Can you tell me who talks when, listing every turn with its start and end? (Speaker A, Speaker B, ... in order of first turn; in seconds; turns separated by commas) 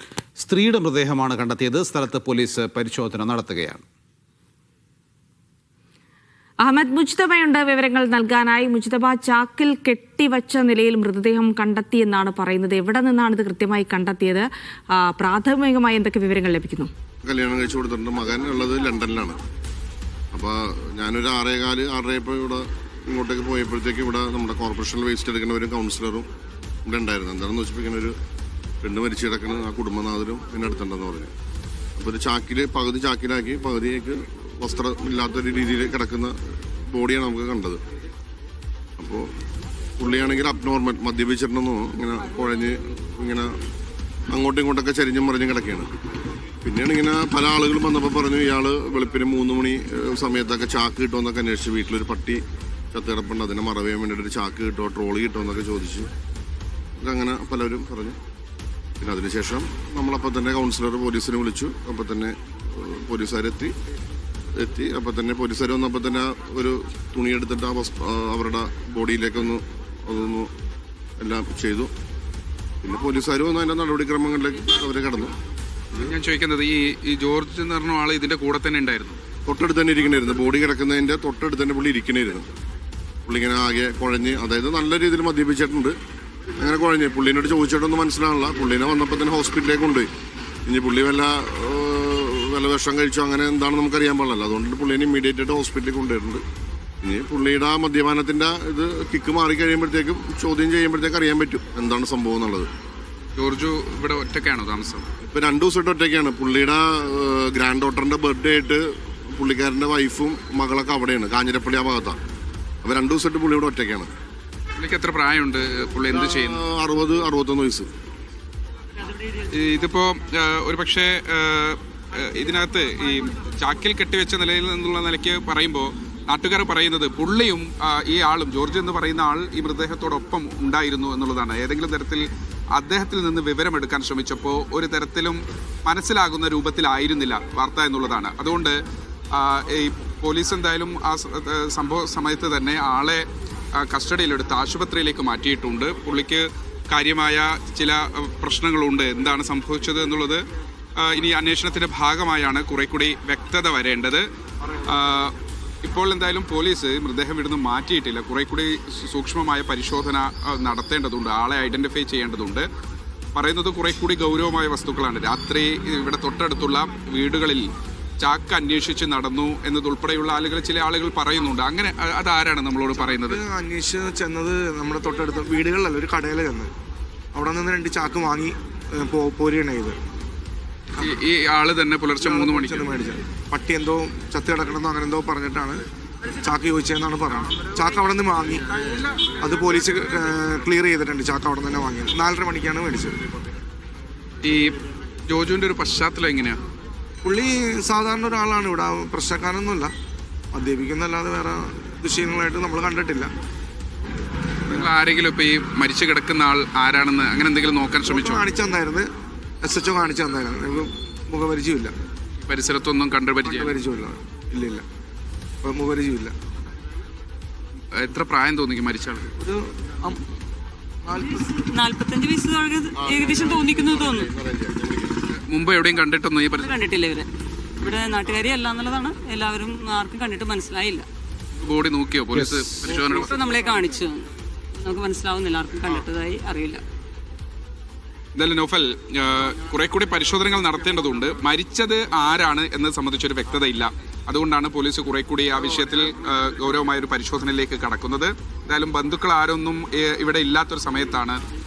Speaker A: 0.4-3.8, Speaker B: 6.6-16.9, Speaker C: 17.2-19.4, Speaker C: 20.3-26.3, Speaker C: 26.9-28.1, Speaker C: 28.8-31.3, Speaker C: 32.0-37.8, Speaker C: 39.0-39.3, Speaker C: 40.0-43.5, Speaker C: 44.3-45.9, Speaker C: 46.6-52.4, Speaker C: 52.9-56.1, Speaker C: 57.0-58.2, Speaker C: 59.0-63.7, Speaker C: 64.5-70.5, Speaker C: 71.2-71.9, Speaker C: 72.8-75.3, Speaker D: 76.0-79.2, Speaker C: 79.5-82.5, Speaker C: 83.3-86.0, Speaker C: 86.6-90.1, Speaker C: 90.7-96.4, Speaker C: 97.0-102.7, Speaker D: 103.4-105.1, Speaker C: 105.2-112.2, Speaker C: 112.8-114.1, Speaker D: 114.8-116.7, Speaker C: 116.1-117.9, Speaker D: 119.5-138.8, Speaker D: 139.3-150.4, Speaker D: 151.0-154.3, Speaker D: 154.8-162.7, Speaker D: 163.3-167.7, Speaker D: 168.2-173.4, Speaker E: 172.9-176.7, Speaker E: 177.3-180.0, Speaker D: 181.0-182.9, Speaker E: 182.2-185.8, Speaker E: 186.4-188.7, Speaker E: 189.4-193.2, Speaker D: 194.4-196.6, Speaker E: 197.2-199.9, Speaker E: 200.5-203.3, Speaker D: 204.7-208.4, Speaker E: 208.1-209.1, Speaker E: 209.6-211.9, Speaker D: 212.5-213.8, Speaker E: 213.4-214.8, Speaker E: 215.6-216.3, Speaker D: 217.9-219.3, Speaker E: 219.4-220.2, Speaker E: 221.0-221.5, Speaker F: 221.4-224.3, Speaker C: 223.0-225.3, Speaker D: 225.5-226.8, Speaker F: 226.6-227.3, Speaker F: 227.8-231.1, Speaker D: 231.6-233.3, Speaker A: 232.3-232.7, Speaker F: 233.1-236.8, Speaker D: 238.3-251.4